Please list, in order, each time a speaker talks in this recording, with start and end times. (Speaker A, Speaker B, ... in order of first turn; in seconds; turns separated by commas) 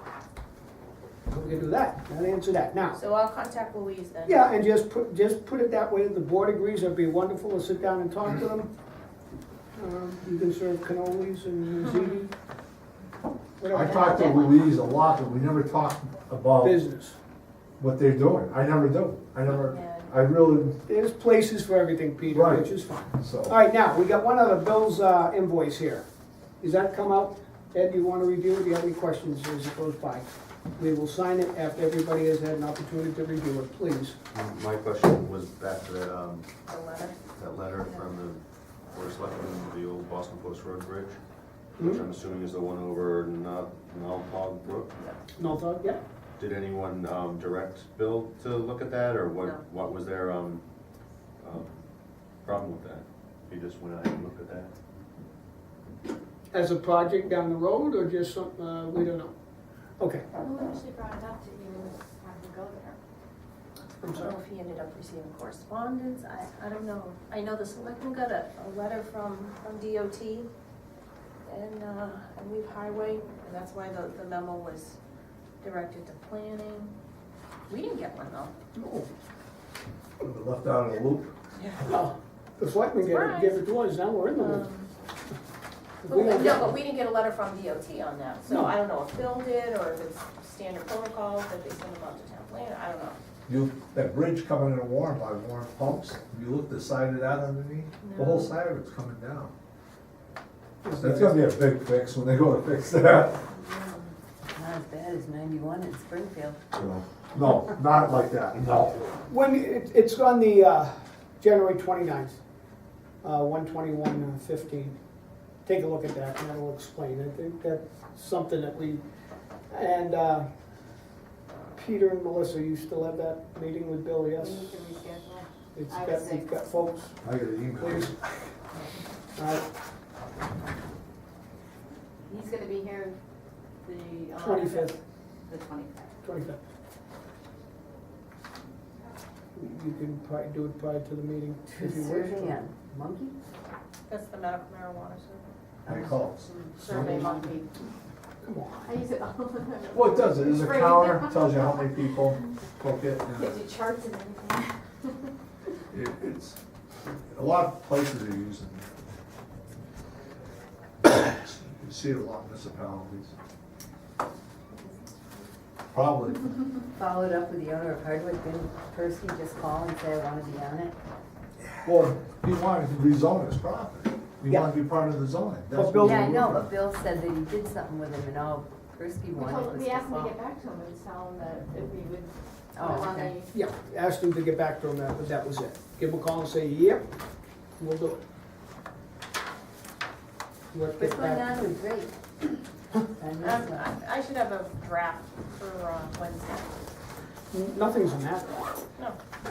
Speaker A: 1.3-3.0, Speaker B: 2.9-4.5, Speaker A: 4.3-8.7, Speaker A: 9.8-12.3, Speaker A: 13.6-14.4, Speaker C: 13.7-16.8, Speaker B: 14.2-14.6, Speaker A: 16.6-17.2, Speaker C: 17.8-20.8, Speaker B: 19.4-20.2, Speaker A: 20.9-26.1, Speaker C: 22.3-23.6, Speaker A: 26.6-34.1, Speaker D: 34.3-36.5, Speaker B: 36.7-37.2, Speaker D: 37.4-38.4, Speaker D: 38.9-41.2, Speaker D: 41.8-44.9, Speaker A: 45.4-46.0, Speaker D: 46.4-50.6, Speaker D: 51.4-51.8, Speaker D: 52.4-54.7, Speaker A: 56.5-59.3, Speaker A: 60.0-60.2, Speaker E: 60.4-63.0, Speaker A: 64.0-64.4, Speaker B: 64.0-70.5, Speaker B: 71.5-75.0, Speaker B: 75.6-76.9, Speaker B: 77.7-78.5, Speaker A: 78.7-79.1, Speaker C: 80.2-81.3, Speaker B: 81.6-82.0, Speaker A: 81.9-84.7, Speaker B: 83.0-83.6, Speaker B: 84.3-84.9, Speaker A: 86.0-86.7, Speaker B: 86.1-93.2, Speaker C: 93.5-99.5, Speaker B: 98.0-98.5, Speaker A: 100.8-101.4, Speaker C: 101.0-103.5, Speaker B: 103.5-104.1, Speaker F: 104.5-106.6, Speaker C: 106.7-109.1, Speaker A: 109.3-112.4, Speaker A: 113.2-115.0, Speaker A: 115.7-119.0, Speaker A: 119.7-120.5, Speaker A: 121.7-124.7, Speaker E: 124.3-126.5, Speaker A: 125.8-127.3, Speaker C: 127.2-128.2, Speaker A: 127.8-128.2, Speaker A: 129.4-129.7, Speaker E: 132.3-133.2, Speaker E: 133.8-136.2, Speaker A: 134.4-134.9, Speaker A: 136.2-136.6, Speaker A: 139.6-142.6, Speaker F: 141.7-143.3, Speaker B: 144.1-145.5, Speaker C: 145.9-147.2, Speaker E: 146.5-147.8, Speaker B: 146.8-147.6, Speaker A: 148.4-148.9, Speaker E: 148.8-152.1, Speaker C: 149.9-153.6, Speaker E: 153.2-155.3, Speaker C: 155.9-156.6, Speaker C: 157.3-158.9, Speaker C: 161.0-163.3, Speaker E: 164.7-165.5, Speaker C: 165.9-166.5, Speaker F: 166.9-170.9, Speaker C: 171.8-176.7, Speaker A: 175.7-176.6, Speaker F: 176.0-180.3, Speaker E: 179.4-183.5, Speaker F: 182.8-183.3, Speaker A: 183.5-187.1, Speaker A: 187.8-188.2, Speaker A: 190.7-191.5, Speaker F: 191.0-192.1, Speaker F: 193.1-193.9, Speaker B: 193.4-196.8, Speaker A: 197.5-198.8